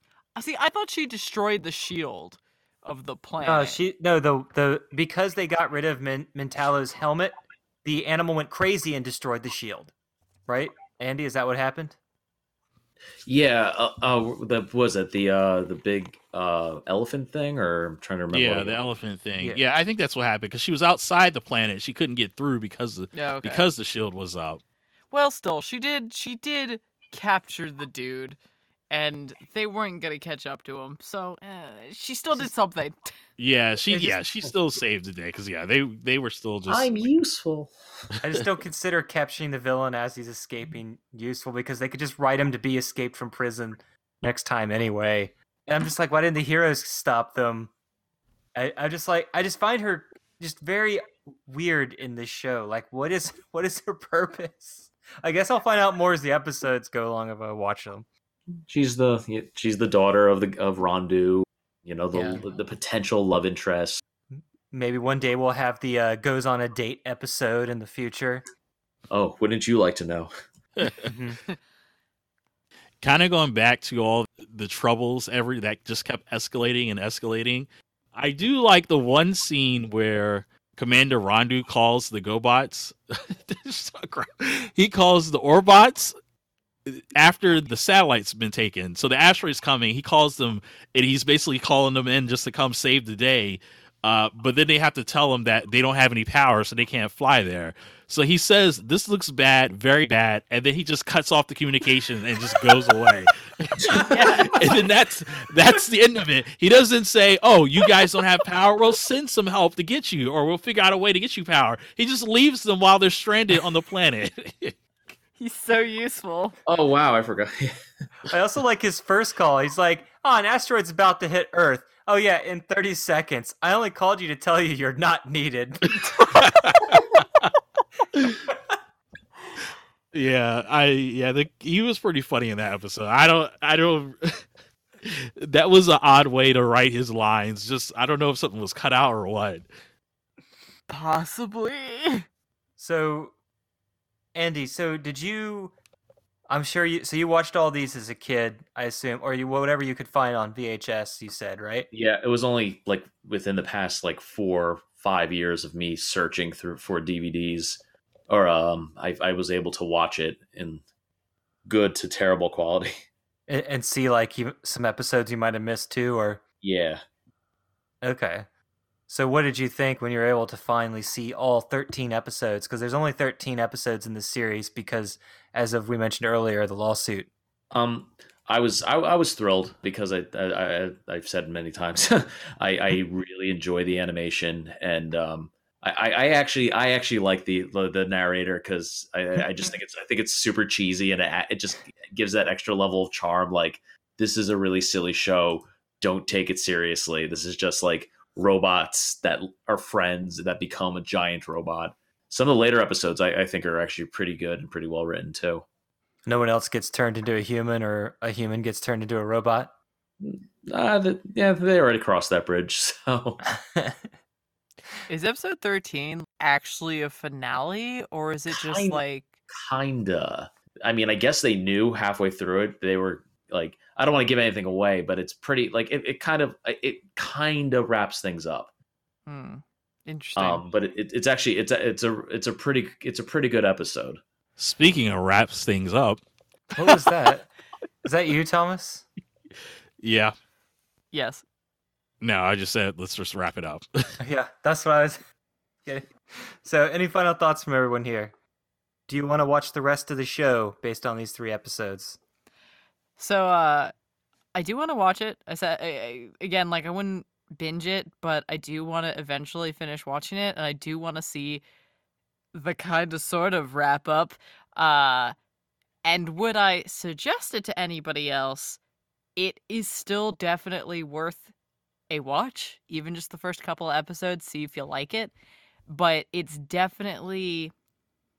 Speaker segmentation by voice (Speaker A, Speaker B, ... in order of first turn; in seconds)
Speaker A: 0.3-3.8, 23.1-23.6, 25.1-28.4, 28.9-33.1, 104.1-104.7, 115.4-116.6, 140.9-142.2, 215.1-219.3, 229.3-230.6, 241.1-241.4, 253.2-253.9, 254.5-261.6, 262.5-265.3, 266.0-268.8, 269.4-271.5, 272.1-275.3, 275.9-277.7
Speaker B: 3.4-9.9, 10.5-12.0, 33.9-34.2, 38.2-47.7, 48.5-58.0, 62.1-62.4, 64.3-68.4, 71.0-71.4, 118.3-126.3, 142.8-143.3, 144.3-145.7, 146.5-151.9, 163.5-166.4, 168.0-168.4, 169.1-177.3, 206.2-209.7, 213.5-214.0, 236.7-237.5, 238.0-239.0, 244.2-245.2, 245.8-248.3, 249.1-252.2
Speaker C: 13.2-18.8, 36.7-37.7, 58.5-64.0, 69.1-70.3, 116.7-117.7, 151.9-160.8, 161.6-163.0, 166.6-167.0, 177.7-205.7, 210.2-213.4, 218.5-228.7, 230.3-234.2
Speaker D: 18.3-24.6, 33.4-36.9, 73.0-86.2, 86.8-114.8, 126.4-127.5, 128.1-128.4, 130.1-134.4, 135.0-139.7, 234.6-236.2, 240.0-240.3, 242.2-244.0